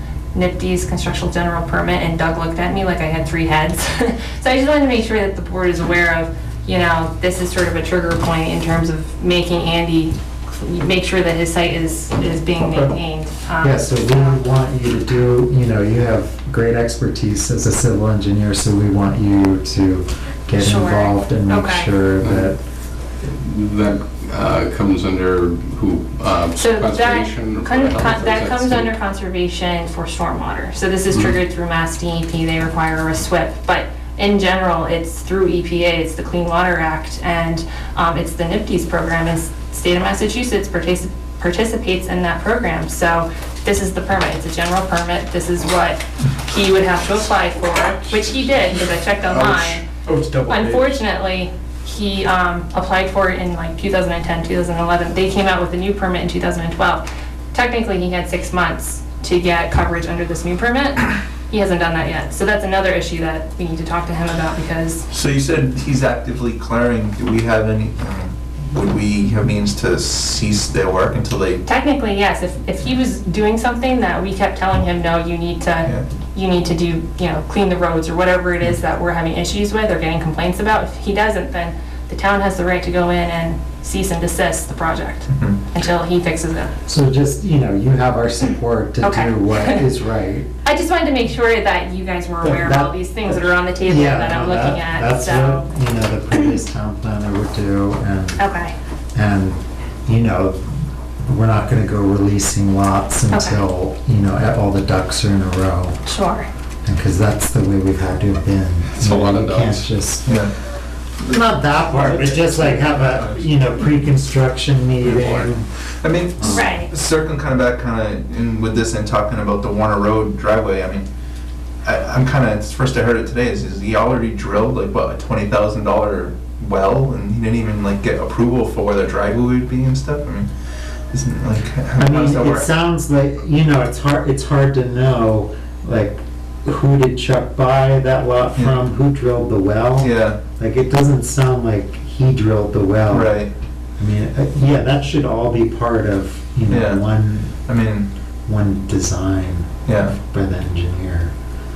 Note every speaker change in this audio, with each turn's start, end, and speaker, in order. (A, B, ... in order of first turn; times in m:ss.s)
0:00.3-0:14.4 A
0:12.6-0:12.9 B
0:13.6-0:22.6 C
0:20.6-0:21.9 A
0:22.2-0:22.5 D
0:23.2-0:28.9 D
0:26.6-0:49.8 A
0:48.1-0:48.4 B
0:49.4-0:51.0 B
0:50.5-1:05.0 A
1:05.1-1:11.6 E
1:11.6-1:26.7 A
1:25.3-1:25.6 E
1:26.9-1:30.5 C
1:29.0-1:29.8 A
1:30.6-1:35.7 A
1:32.4-1:33.0 C
1:33.8-1:38.4 C
1:38.4-1:38.8 A
1:39.1-1:40.7 C
1:41.2-1:46.0 C
1:43.3-1:43.6 A
1:46.0-1:46.5 A
1:46.8-1:50.5 C
1:48.9-1:49.9 D
1:50.2-1:50.5 E
1:51.2-1:55.7 C
1:51.9-1:53.4 B
1:55.0-1:55.5 D
1:56.0-2:01.0 E
1:56.3-1:56.8 C
1:56.5-1:56.9 A
2:01.8-2:10.5 E
2:11.1-2:12.7 E
2:12.0-2:23.4 C
2:20.0-2:20.4 E
2:23.1-2:23.5 E
2:24.0-2:27.5 C
2:26.7-2:27.0 E
2:27.6-2:28.1 E
2:28.4-2:31.3 C
2:29.8-2:30.2 E